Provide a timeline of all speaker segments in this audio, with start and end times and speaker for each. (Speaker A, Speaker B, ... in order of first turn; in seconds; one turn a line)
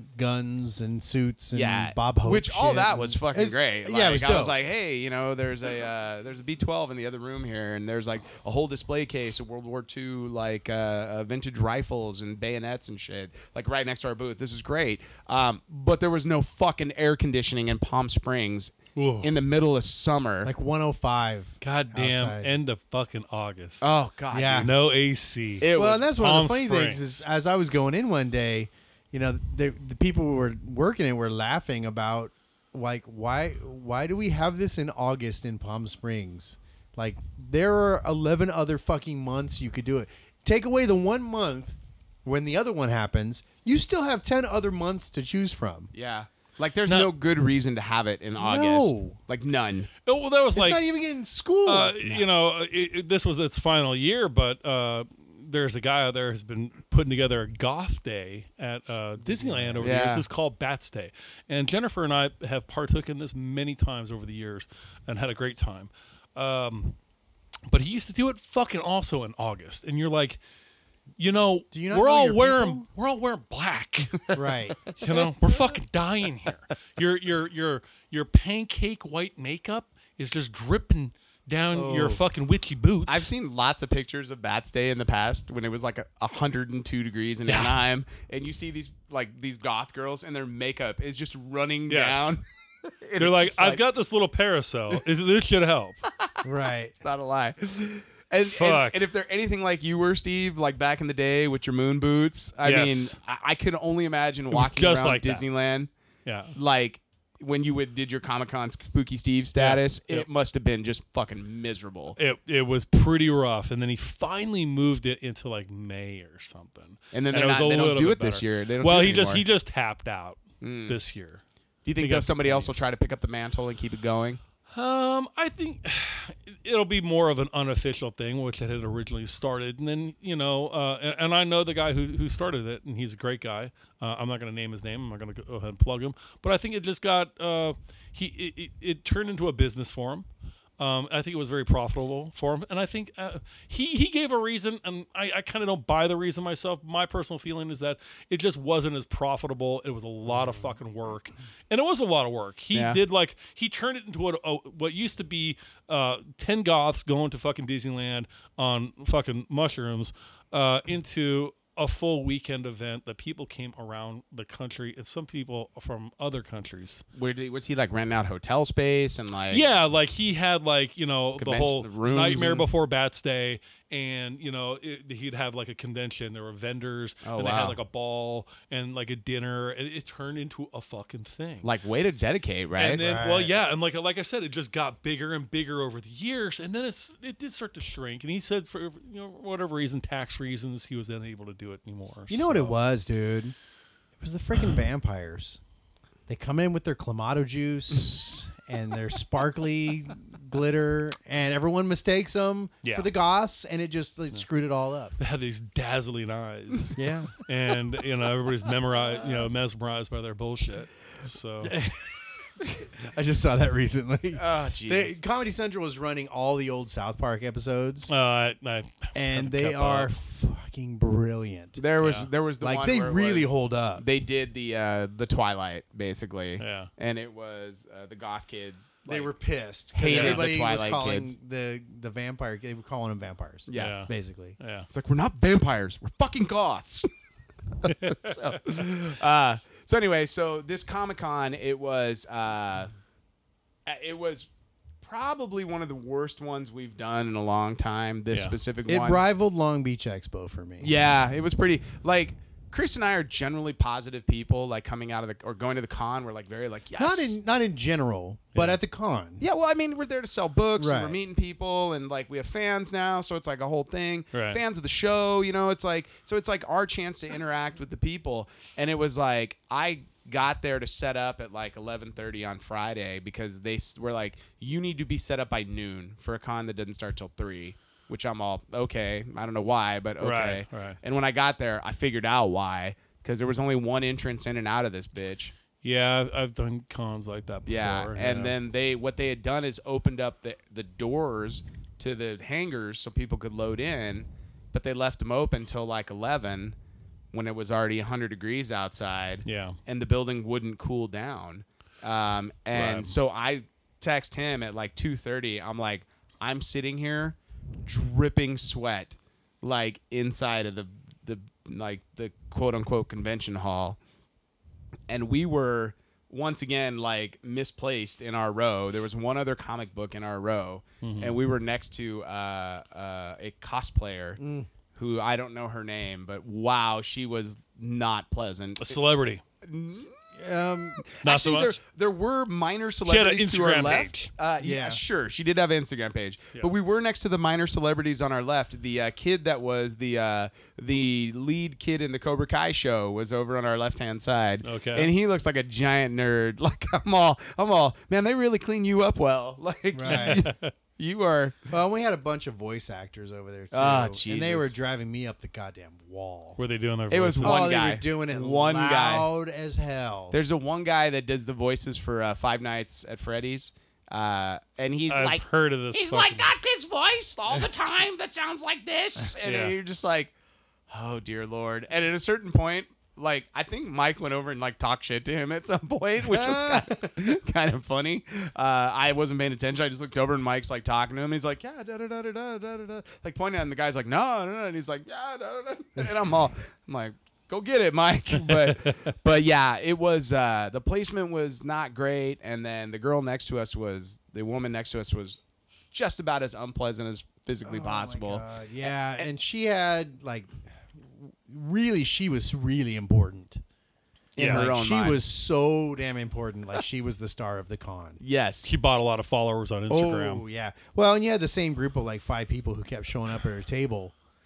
Speaker A: 0.1-4.5
Speaker B: 1.5-20.5
Speaker C: 18.9-19.3
Speaker A: 20.4-22.5
Speaker C: 21.6-23.9
Speaker B: 23.8-24.7
Speaker A: 24.3-24.7
Speaker C: 24.6-27.2
Speaker B: 25.6-26.1
Speaker A: 25.7-45.9
Speaker B: 45.9-49.9
Speaker C: 46.9-47.1
Speaker A: 48.4-49.2
Speaker C: 50.0-50.8
Speaker A: 50.5-52.0
Speaker C: 51.6-67.0
Speaker A: 59.2-59.9
Speaker B: 59.8-60.2
Speaker C: 67.7-70.4
Speaker C: 71.2-74.3
Speaker A: 71.7-72.8
Speaker A: 74.3-74.8
Speaker C: 75.0-83.3
Speaker A: 81.7-82.2
Speaker B: 83.1-92.4
Speaker C: 87.5-87.8
Speaker C: 91.9-92.3
Speaker B: 93.0-93.8
Speaker C: 93.2-96.0
Speaker A: 96.4-96.9
Speaker B: 97.0-105.9
Speaker C: 98.4-99.0
Speaker C: 102.6-103.2
Speaker C: 104.5-105.4
Speaker C: 106.2-106.5
Speaker B: 106.5-112.2
Speaker C: 109.6-110.3
Speaker C: 112.2-121.4
Speaker B: 117.1-119.4
Speaker B: 120.6-121.0
Speaker B: 121.8-124.4
Speaker C: 122.0-122.8
Speaker C: 124.7-140.3
Speaker C: 140.8-167.0
Speaker B: 152.7-153.0
Speaker B: 167.1-169.6
Speaker C: 169.5-181.7
Speaker B: 171.4-172.7
Speaker B: 177.2-177.8
Speaker B: 181.6-183.0
Speaker C: 182.8-192.8
Speaker A: 183.0-183.5
Speaker A: 192.3-193.5
Speaker A: 194.2-195.6
Speaker A: 196.3-205.2
Speaker C: 202.8-203.1
Speaker C: 205.2-211.7
Speaker A: 206.9-207.4
Speaker A: 211.6-218.1
Speaker B: 214.3-215.2
Speaker C: 218.1-220.1
Speaker A: 219.1-221.8
Speaker B: 221.8-229.3
Speaker C: 222.0-222.3
Speaker A: 222.6-224.0
Speaker C: 226.6-226.9
Speaker A: 229.1-234.6
Speaker B: 229.9-231.3
Speaker C: 230.0-230.5
Speaker B: 233.7-234.0
Speaker C: 233.7-234.9
Speaker B: 234.9-237.1
Speaker B: 237.8-242.9
Speaker C: 237.8-238.6
Speaker B: 243.8-244.5
Speaker B: 245.0-249.2
Speaker A: 248.9-251.1
Speaker B: 250.8-257.4
Speaker A: 257.0-259.4
Speaker B: 259.4-285.5
Speaker A: 260.8-261.1
Speaker C: 264.3-264.6
Speaker C: 280.2-281.0
Speaker C: 285.8-288.5
Speaker B: 287.6-296.8
Speaker B: 297.3-314.0
Speaker C: 299.4-299.8
Speaker C: 302.7-303.1
Speaker B: 315.1-324.4
Speaker C: 321.0-321.4
Speaker A: 324.4-324.7
Speaker B: 324.9-329.0
Speaker C: 328.8-329.4
Speaker B: 329.6-330.1
Speaker A: 330.4-331.0
Speaker B: 331.0-351.6
Speaker C: 331.2-331.8
Speaker C: 333.1-334.3
Speaker A: 334.6-335.0
Speaker C: 344.6-345.1
Speaker A: 349.9-350.4
Speaker C: 350.1-350.7
Speaker A: 351.7-356.6
Speaker B: 353.7-354.7
Speaker C: 356.6-357.7
Speaker B: 357.1-359.3
Speaker A: 357.4-360.4
Speaker B: 360.3-370.3
Speaker C: 365.1-366.5
Speaker C: 369.4-369.7
Speaker B: 370.9-395.4
Speaker A: 376.3-377.1
Speaker C: 388.4-389.0
Speaker B: 395.9-399.3
Speaker A: 397.6-403.6
Speaker B: 404.4-405.2
Speaker C: 404.4-404.7
Speaker A: 404.4-408.2
Speaker B: 408.2-408.7
Speaker C: 408.6-410.4
Speaker A: 409.9-414.1